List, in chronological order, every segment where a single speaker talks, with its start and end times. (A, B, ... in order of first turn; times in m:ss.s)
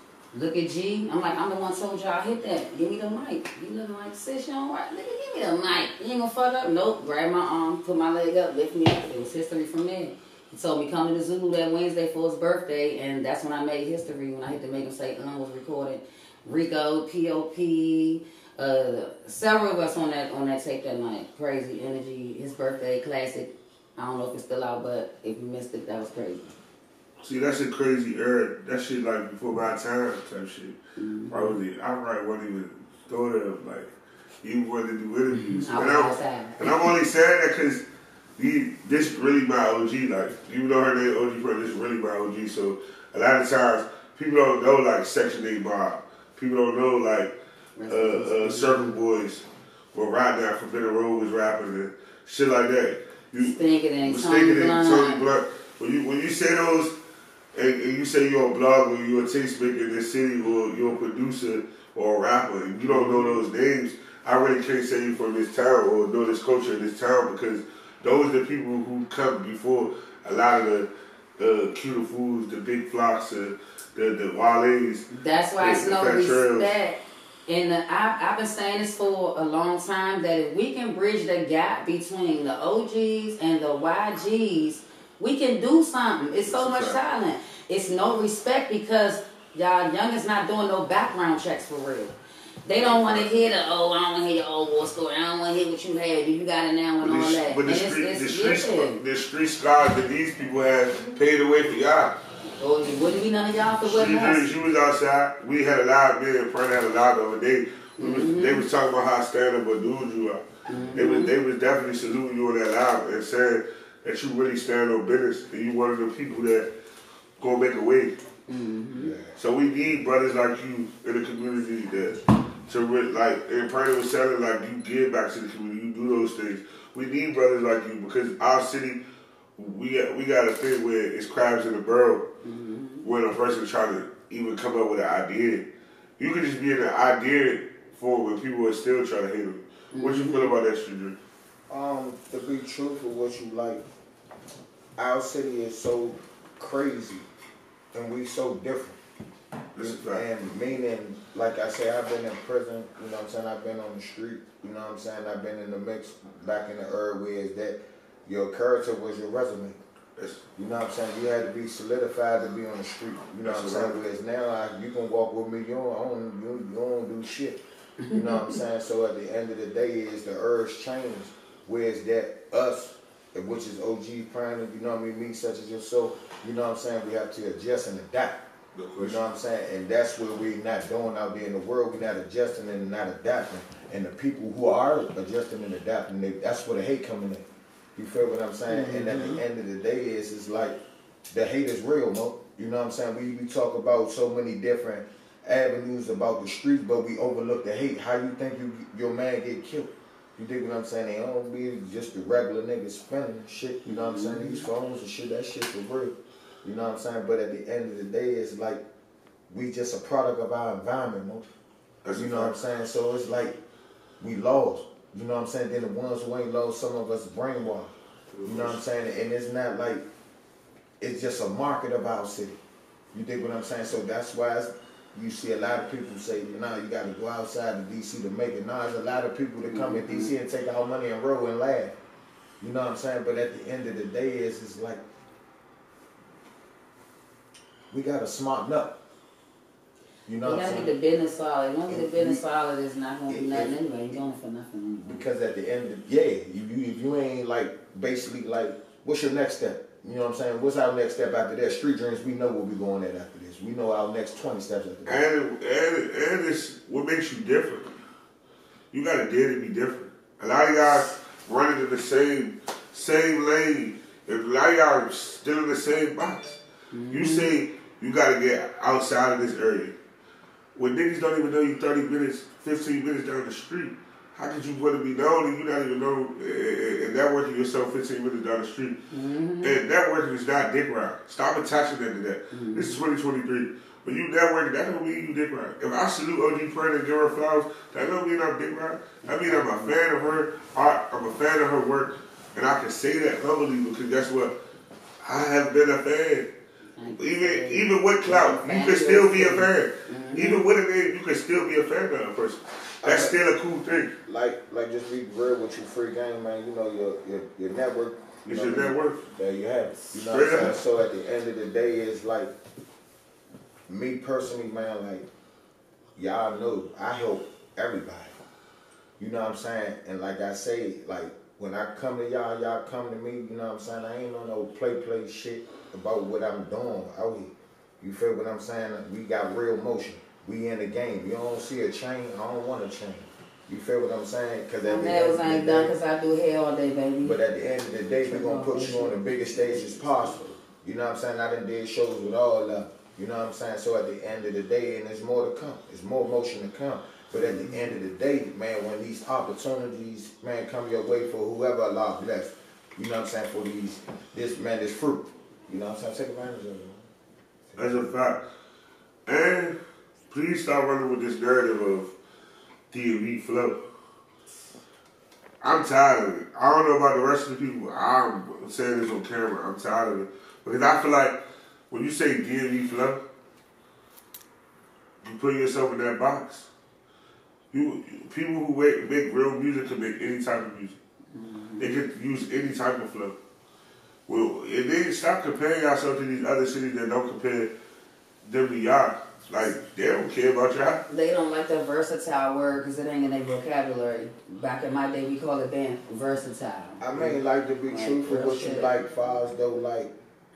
0:00.3-0:26.5 A
0:27.2-0:30.8 B
0:31.0-0:31.6 A
0:31.3-0:33.9 B
0:34.4-0:37.8 B
0:35.3-0:36.9 A
0:38.4-0:47.3 B
0:47.8-0:48.9 A
0:47.9-0:56.9 B
0:53.4-0:55.2 A
0:57.5-1:15.1 B
1:02.9-1:03.4 A
1:15.1-1:39.0 A
1:15.6-1:16.7 B
1:26.5-1:27.0 B
1:32.8-1:33.3 B
1:37.0-1:42.1 B
1:42.6-1:44.5 A
1:43.8-1:56.7 B
1:48.0-1:48.6 A
1:50.7-1:51.3 A
1:57.4-1:58.1 B
1:58.5-1:59.1 A
1:58.9-1:59.3 C
1:59.4-2:09.0 B
2:09.6-2:12.3 B
2:12.4-2:13.0 A
2:13.0-2:15.6 B
2:16.2-2:21.2 B
2:19.9-2:20.5 A
2:21.7-2:23.8 C
2:25.0-2:27.2 C
2:27.9-2:29.0 C
2:29.7-2:30.2 B
2:29.8-2:39.8 C
2:40.2-2:40.4 B
2:40.6-2:58.4 C
2:43.4-2:44.0 B
2:48.0-2:48.6 A
2:58.7-2:59.2 B
2:59.0-3:10.7 C
3:08.7-3:09.4 A
3:11.3-3:28.8 C
3:23.8-3:24.6 A
3:29.5-3:31.5 C
3:32.0-3:32.5 B
3:32.1-3:33.6 C
3:34.2-3:40.0 C
3:38.3-3:38.8 B
3:41.0-3:42.6 C
3:43.1-3:52.0 C
3:49.6-3:50.3 A
3:52.6-3:55.0 C
3:57.9-3:59.0 C
4:00.2-4:00.9 C
4:00.4-4:05.2 A
4:01.9-4:02.4 C
4:03.3-4:03.7 C
4:05.0-4:15.2 C
4:15.0-4:17.9 B
4:18.9-4:26.6 B
4:26.9-4:27.5 A
4:27.1-4:29.9 B
4:30.7-4:39.0 B
4:39.1-4:39.8 A
4:39.6-4:54.5 B
4:42.5-4:43.0 A
4:49.2-4:49.9 A
4:55.2-4:56.5 B
4:57.0-5:00.6 A
4:57.2-5:04.1 B
5:03.0-5:03.3 C
5:04.2-5:12.5 C
5:08.4-5:09.2 B
5:10.1-5:10.8 B
5:13.9-5:15.2 C
5:16.2-5:18.3 C
5:19.2-5:35.9 C
5:34.8-5:37.4 A
5:37.2-5:57.1 C
5:38.1-5:40.4 A
5:57.7-5:58.1 C
5:57.8-5:58.4 B
5:59.2-5:59.8 B
6:00.3-6:02.1 B
6:02.9-6:03.8 B
6:05.6-6:11.4 B
6:11.9-6:13.2 B
6:15.2-6:16.7 B
6:17.7-6:21.0 B
6:21.3-6:21.9 A
6:21.8-6:23.3 B
6:24.3-6:27.7 B
6:28.4-6:31.0 B
6:31.1-6:37.3 A
6:37.0-6:40.1 C
6:37.9-6:38.9 A